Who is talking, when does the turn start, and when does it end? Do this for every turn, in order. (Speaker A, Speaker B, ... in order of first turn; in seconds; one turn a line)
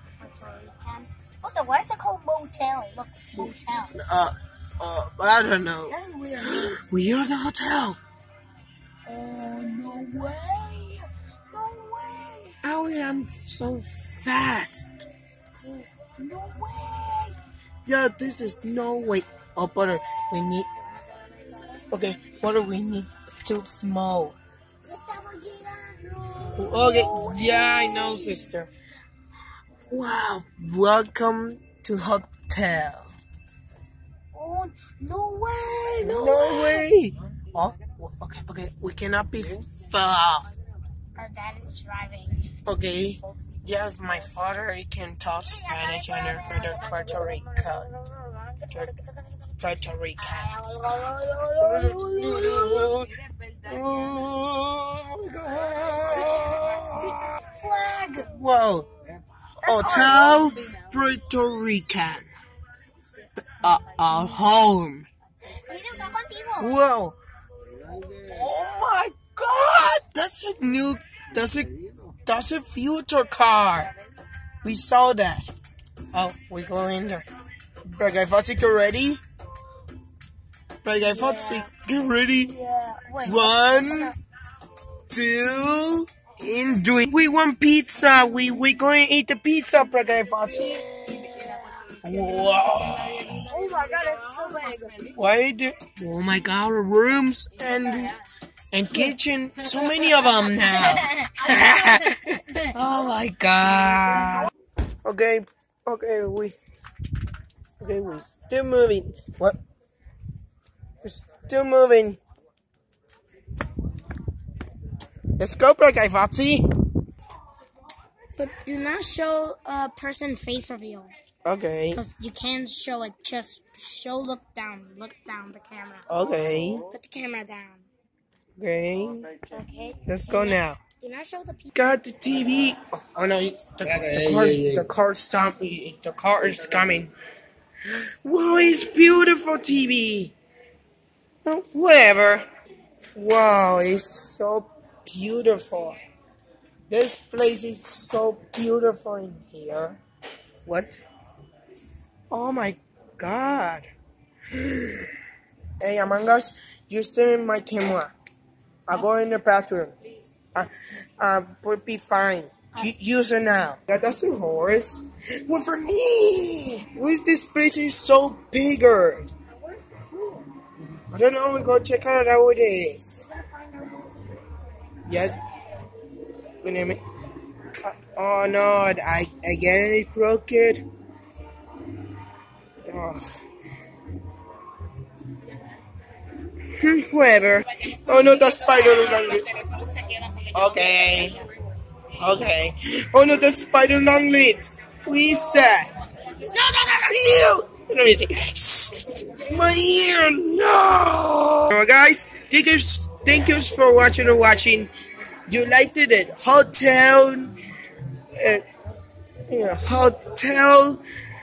Speaker A: 0.2-3.9
Speaker B: 3.4-8.0
Speaker A: 6.4-6.8
Speaker A: 9.1-12.5
Speaker B: 12.6-15.1
Speaker A: 15.6-17.3
Speaker B: 17.9-20.7
Speaker B: 21.9-24.4
Speaker A: 24.9-28.5
Speaker B: 26.6-28.7
Speaker B: 29.9-33.1
Speaker A: 34.3-36.9
Speaker B: 36.0-40.5
Speaker A: 41.1-42.6
Speaker B: 42.6-47.9
Speaker A: 45.4-49.6
Speaker B: 49.6-50.5
Speaker A: 50.2-53.0
Speaker B: 51.6-57.2
Speaker A: 55.9-58.3
Speaker B: 58.3-58.9
Speaker A: 59.6-60.5
Speaker B: 59.6-62.3
Speaker B: 63.4-65.1
Speaker A: 65.5-66.8
Speaker B: 66.6-67.2
Speaker B: 68.1-73.9
Speaker B: 74.6-75.5
Speaker B: 76.1-77.2
Speaker B: 77.8-79.2
Speaker B: 80.8-82.5
Speaker A: 80.9-81.7
Speaker A: 82.4-84.2
Speaker B: 83.2-84.1
Speaker B: 85.1-90.8
Speaker A: 90.5-91.9
Speaker B: 92.0-93.4
Speaker A: 93.2-95.1
Speaker B: 95.1-98.2
Speaker B: 98.7-104.5
Speaker A: 100.7-102.7
Speaker B: 105.0-106.5
Speaker B: 107.8-109.6
Speaker B: 111.0-112.2
Speaker B: 115.4-116.7
Speaker A: 118.4-121.1
Speaker B: 121.4-122.0
Speaker A: 121.9-126.1
Speaker B: 126.1-126.8
Speaker A: 126.9-127.9
Speaker B: 128.6-129.3
Speaker A: 129.5-131.7
Speaker B: 130.1-130.8
Speaker B: 131.7-137.1
Speaker B: 137.9-140.3
Speaker B: 141.4-142.4
Speaker B: 143.1-146.0
Speaker B: 146.9-150.0
Speaker B: 150.6-151.0
Speaker B: 152.3-153.9
Speaker B: 154.5-155.1
Speaker B: 155.8-158.1
Speaker B: 158.8-159.9
Speaker B: 160.5-169.3
Speaker A: 169.7-170.4
Speaker B: 171.1-173.2
Speaker A: 173.3-174.1
Speaker B: 175.1-175.3
Speaker B: 176.6-177.0
Speaker B: 177.8-180.8
Speaker B: 182.8-183.4
Speaker B: 186.7-189.6
Speaker B: 190.5-191.4
Speaker B: 192.2-204.9
Speaker B: 205.5-207.5
Speaker B: 208.3-208.6
Speaker B: 209.5-211.0